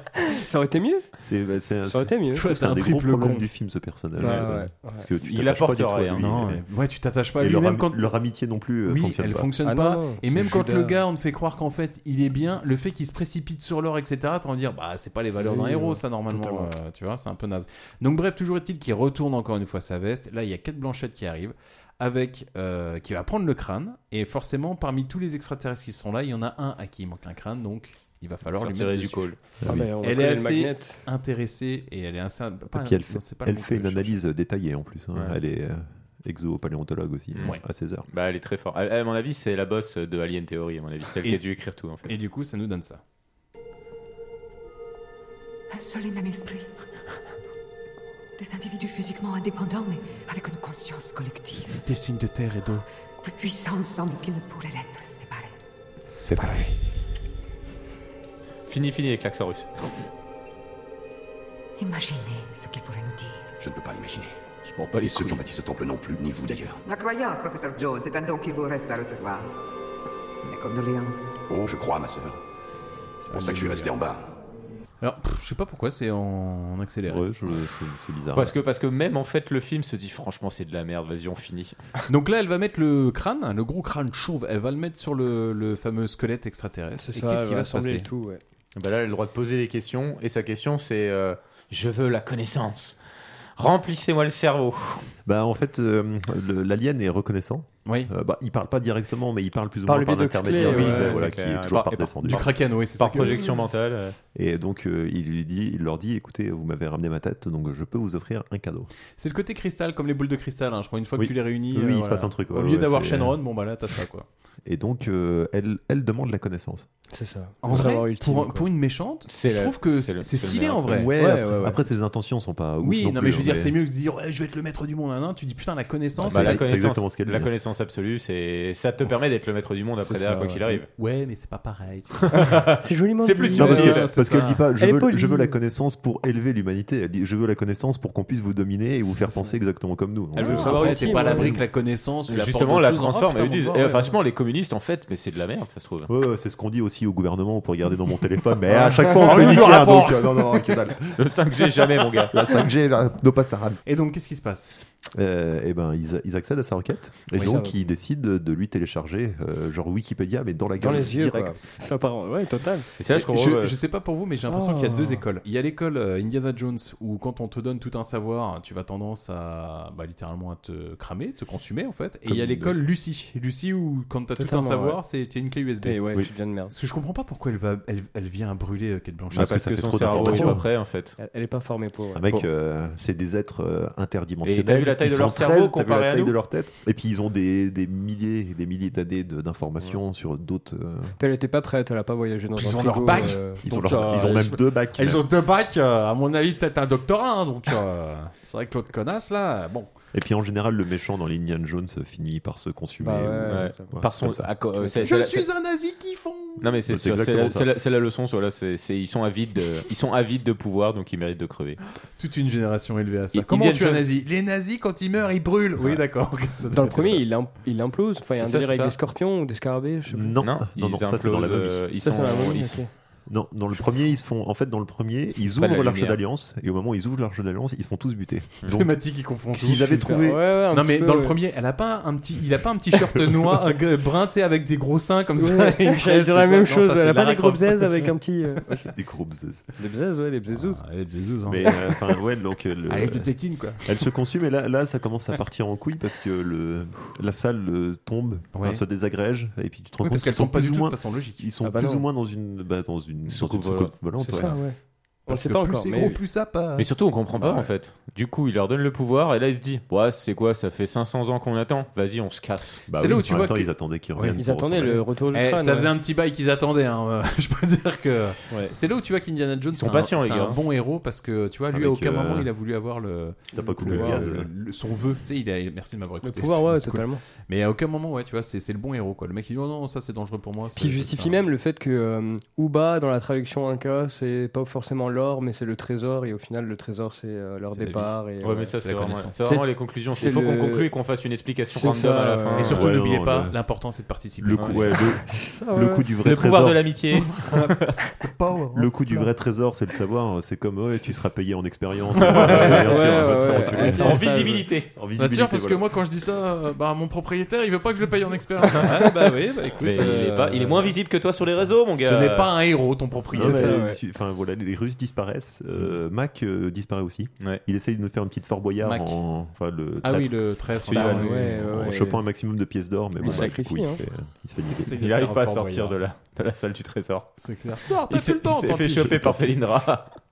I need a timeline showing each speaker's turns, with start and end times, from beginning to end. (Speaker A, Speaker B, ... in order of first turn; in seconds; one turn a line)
Speaker A: 0.2-1.1
Speaker B: 1.2-6.6
Speaker A: 1.9-2.4
Speaker C: 2.3-3.5
Speaker A: 4.2-5.0
Speaker D: 5.2-6.2
Speaker C: 6.2-8.1
Speaker B: 7.4-9.5
Speaker C: 8.8-29.3
Speaker A: 9.6-11.0
Speaker A: 15.4-16.7
Speaker D: 28.5-29.4
Speaker B: 29.6-29.9
Speaker A: 29.6-31.0
Speaker C: 30.0-34.2
Speaker B: 32.7-38.1
Speaker D: 37.3-42.1
Speaker C: 42.1-43.0
Speaker E: 45.7-46.8
Speaker E: 48.4-51.8
Speaker C: 51.8-52.8
Speaker E: 53.2-55.5
Speaker C: 56.1-56.8
Speaker D: 58.7-59.9
Speaker E: 61.8-63.5
Speaker F: 63.6-64.3
Speaker D: 64.6-65.5
Speaker F: 65.0-66.8
Speaker E: 66.8-69.5
Speaker E: 70.4-71.4
Speaker F: 71.5-72.4
Speaker C: 73.3-73.9
Speaker F: 73.3-74.3
Speaker C: 75.0-77.3
Speaker B: 77.1-78.5
Speaker D: 78.3-81.8
Speaker C: 82.1-88.1
Speaker A: 87.0-88.4
Speaker D: 88.8-93.0
Speaker D: 93.6-95.1
Speaker B: 95.2-102.5
Speaker C: 97.8-98.1
Speaker A: 99.8-101.2
Speaker C: 100.6-101.2
Speaker D: 100.7-104.2
Speaker C: 102.2-103.6
Speaker B: 104.3-108.9
Speaker C: 109.2-114.3
Speaker B: 111.2-113.4
Speaker B: 114.7-116.9
Speaker A: 117.1-118.7
Speaker C: 117.6-121.1
Speaker D: 119.3-121.0
Speaker B: 120.9-123.8
Speaker A: 121.2-121.8
Speaker C: 122.8-126.6
Speaker B: 126.2-127.5
Speaker D: 126.3-130.9
Speaker A: 130.0-130.8
Speaker C: 130.9-132.5
Speaker D: 132.3-134.1
Speaker A: 132.8-133.9
Speaker C: 133.6-134.6
Speaker B: 133.6-141.6
Speaker A: 134.8-135.6
Speaker A: 140.3-141.5
Speaker C: 140.4-144.2
Speaker D: 142.3-146.1
Speaker B: 146.1-151.2
Speaker C: 148.7-150.6
Speaker D: 151.2-152.3
Speaker B: 152.2-153.8
Speaker C: 153.8-154.7
Speaker B: 155.1-161.6
Speaker A: 157.3-157.7
Speaker A: 160.8-162.9
Speaker D: 163.0-163.8
Speaker C: 163.1-176.1
Speaker A: 164.5-165.2
Speaker B: 172.2-172.8
Speaker A: 174.4-175.0
Speaker A: 175.8-176.7
Speaker C: 176.7-180.6
Speaker B: 179.3-180.7
Speaker D: 179.3-181.2
Speaker A: 181.2-182.2
Speaker B: 182.1-191.2
Speaker D: 184.4-186.3
Speaker A: 191.2-194.4
Speaker C: 192.5-199.9
Speaker B: 193.6-195.2
Speaker B: 200.1-204.5
Speaker A: 203.0-204.0
Speaker D: 203.5-205.4
Speaker C: 205.0-206.7
Speaker D: 206.6-211.8
Speaker B: 206.8-207.8
Speaker C: 212.2-217.2
Speaker D: 213.3-214.1
Speaker A: 216.7-220.3
Speaker D: 218.4-218.9
Speaker B: 220.1-221.8
Speaker D: 220.4-222.8
Speaker A: 222.0-222.9
Speaker B: 223.3-228.9
Speaker D: 225.6-226.2
Speaker C: 228.7-238.1
Speaker B: 229.5-230.4
Speaker A: 230.0-231.3
Speaker A: 235.4-238.7
Speaker B: 238.7-239.7
Speaker A: 239.8-240.8
Speaker C: 240.5-241.8
Speaker B: 241.5-243.3
Speaker C: 242.9-244.0
Speaker B: 243.8-254.6
Speaker C: 248.5-248.8
Speaker C: 250.0-251.5
Speaker A: 251.6-252.0
Speaker D: 253.3-253.9
Speaker A: 254.2-256.1
Speaker C: 255.3-257.6
Speaker D: 256.8-262.9
Speaker B: 262.9-265.0
Speaker C: 263.0-264.4
Speaker A: 264.4-265.9
Speaker C: 265.3-281.5
Speaker D: 269.7-270.6
Speaker B: 271.7-272.5
Speaker B: 273.5-274.5
Speaker A: 273.6-274.2
Speaker A: 276.2-277.2
Speaker A: 280.8-288.7
Speaker C: 287.7-288.2
Speaker D: 288.4-292.9
Speaker C: 288.8-289.6
Speaker A: 290.1-290.9
Speaker A: 291.7-292.8
Speaker C: 292.6-295.2
Speaker B: 292.7-293.6
Speaker B: 294.4-297.0
Speaker D: 294.6-294.9
Speaker A: 295.2-296.1
Speaker D: 296.2-297.9
Speaker C: 297.4-297.6
Speaker C: 298.2-299.3
Speaker B: 298.7-305.9
Speaker D: 302.2-302.9
Speaker C: 302.3-304.3
Speaker A: 302.7-304.6
Speaker D: 303.8-304.9
Speaker C: 305.1-311.0
Speaker D: 309.8-312.5
Speaker C: 311.6-313.8
Speaker B: 313.3-320.4
Speaker A: 313.4-314.0
Speaker C: 318.8-319.2
Speaker C: 320.0-321.9
Speaker D: 320.9-321.2
Speaker A: 320.9-322.2
Speaker B: 321.0-325.0
Speaker A: 323.2-324.0
Speaker C: 324.8-326.0
Speaker D: 325.0-327.4
Speaker C: 327.4-329.3
Speaker D: 328.1-330.1
Speaker B: 329.1-329.5